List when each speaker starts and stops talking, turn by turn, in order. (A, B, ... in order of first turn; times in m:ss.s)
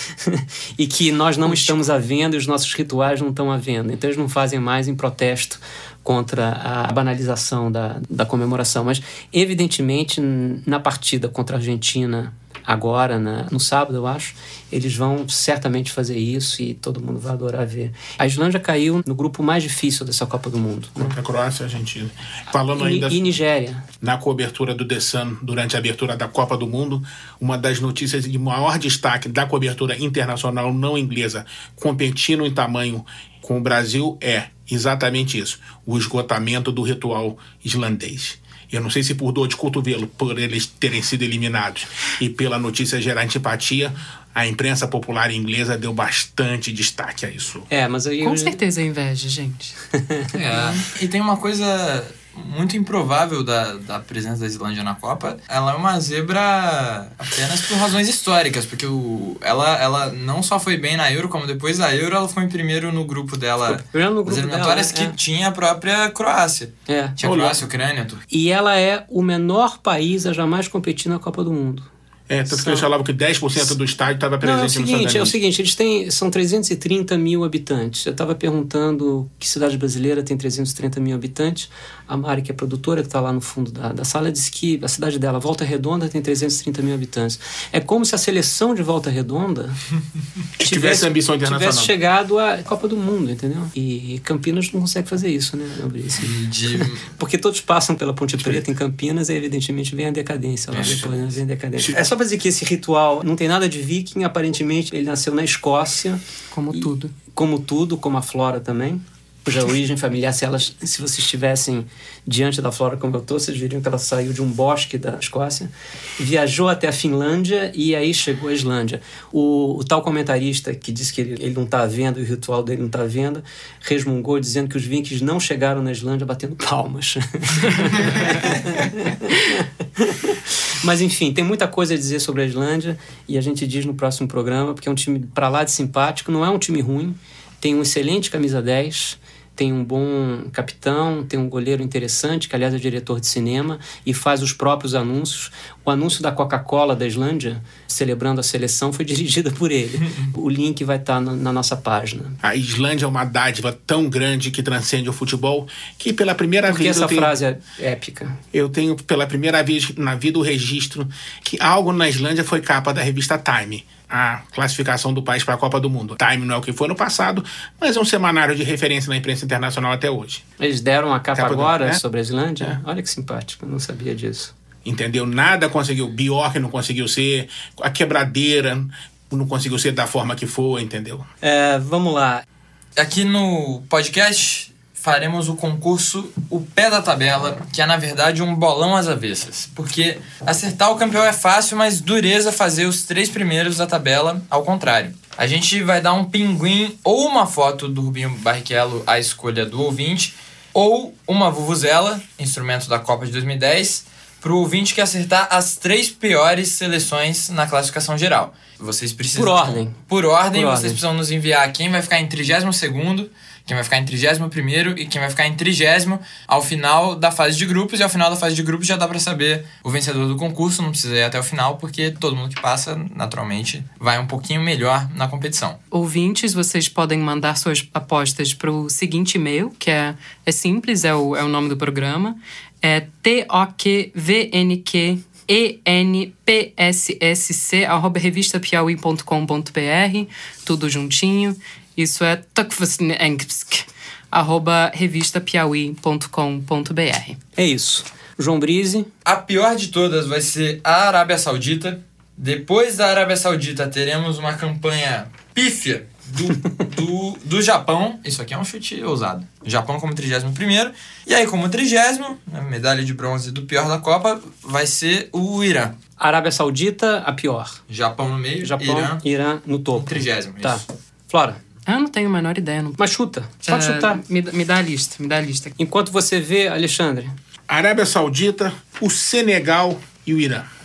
0:00.2-0:21.2 A
0:21.0-0:23.2 B
0:22.7-0:23.9 A
0:24.0-0:47.7 B
0:47.7-0:48.6 A
0:48.2-0:49.8 C
0:50.0-0:50.3 A
0:50.3-1:08.2 D
0:50.4-0:50.8 C
1:03.6-1:05.2 A
1:06.9-1:07.2 A
1:07.2-1:07.6 B
1:08.3-1:11.9 A
1:12.3-1:15.3 B
1:12.5-1:12.9 A
1:14.4-1:29.8 A
1:30.6-1:31.9 B
1:30.6-1:46.2 A
1:36.2-1:37.1 D
1:40.7-1:41.3 B
1:46.5-1:47.1 C
1:46.7-2:32.4 A
2:32.4-2:37.3 B
2:36.6-2:38.4 A
2:38.5-2:50.4 B
2:50.6-2:54.5 A
2:51.3-2:52.0 B
2:54.8-3:01.3 B
3:01.4-3:02.4 A
3:03.0-3:45.8 D
3:29.3-3:30.0 A
3:30.5-3:31.0 A
3:45.9-4:07.4 C
4:07.6-4:09.1 A
4:09.2-4:26.0 D
4:26.2-4:27.8 A
4:27.9-4:29.2 D
4:28.6-4:31.6 A
4:29.9-4:30.8 D
4:31.9-4:33.0 C
4:33.0-4:34.2 A
4:33.6-4:35.8 C
4:35.8-4:37.3 A
4:37.7-4:40.7 B